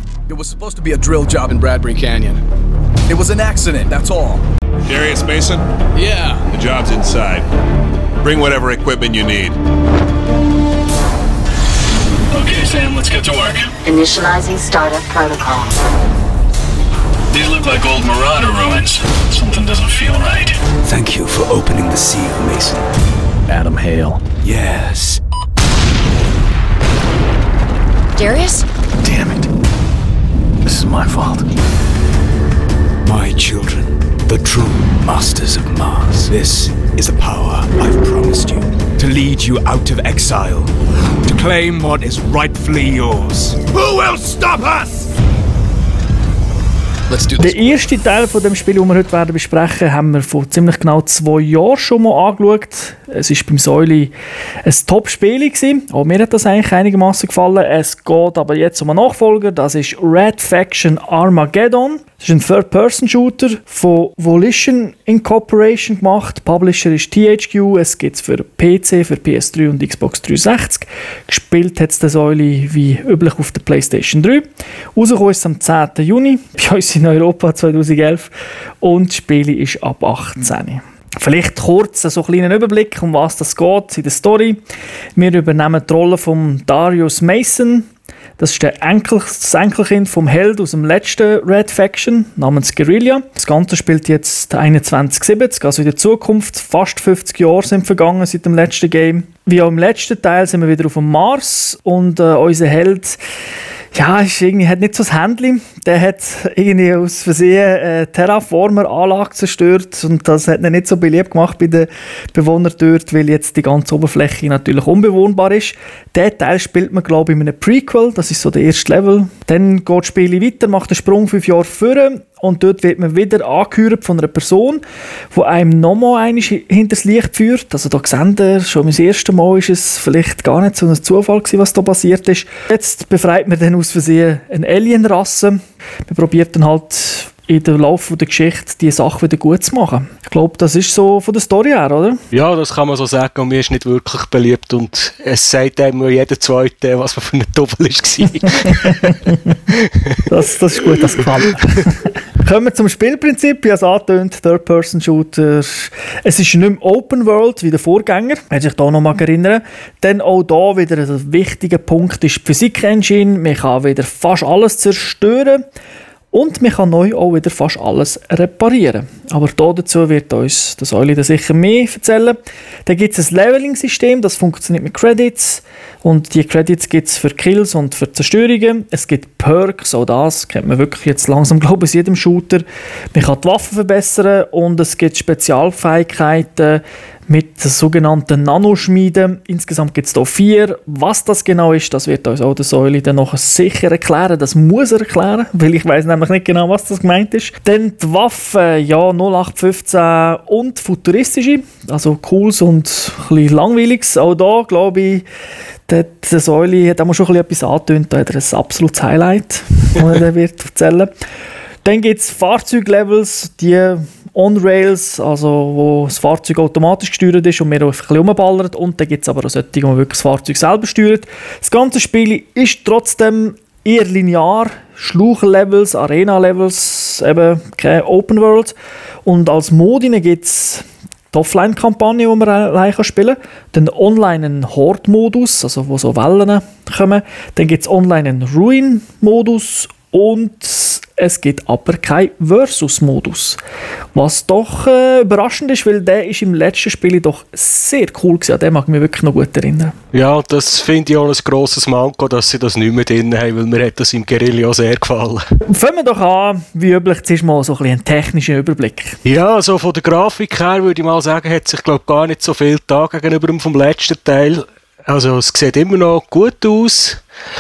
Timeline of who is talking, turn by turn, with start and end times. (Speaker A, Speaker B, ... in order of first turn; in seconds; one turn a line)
Speaker A: 0.3-2.4
Speaker A: 3.1-4.4
Speaker B: 4.9-7.5
Speaker A: 6.0-6.5
Speaker B: 8.2-9.6
Speaker C: 12.3-13.8
Speaker D: 13.8-15.8
Speaker C: 17.3-20.6
Speaker E: 20.8-22.9
Speaker E: 23.5-25.2
Speaker D: 28.2-28.6
Speaker E: 29.0-29.5
Speaker E: 30.6-31.5
Speaker E: 33.0-45.1
Speaker A: 47.1-47.6
Speaker F: 47.4-54.1
Speaker F: 54.7-84.6
Speaker F: 85.2-103.2
Speaker F: 103.9-142.2
Speaker G: 142.3-150.2
Speaker F: 150.2-165.6
Speaker F: 166.3-205.2
Speaker F: 205.9-211.1
Speaker F: 211.8-228.7
Speaker F: 229.2-243.6
Speaker F: 244.1-249.9
Speaker G: 250.1-255.4
Speaker F: 255.7-259.2
Speaker G: 259.2-267.2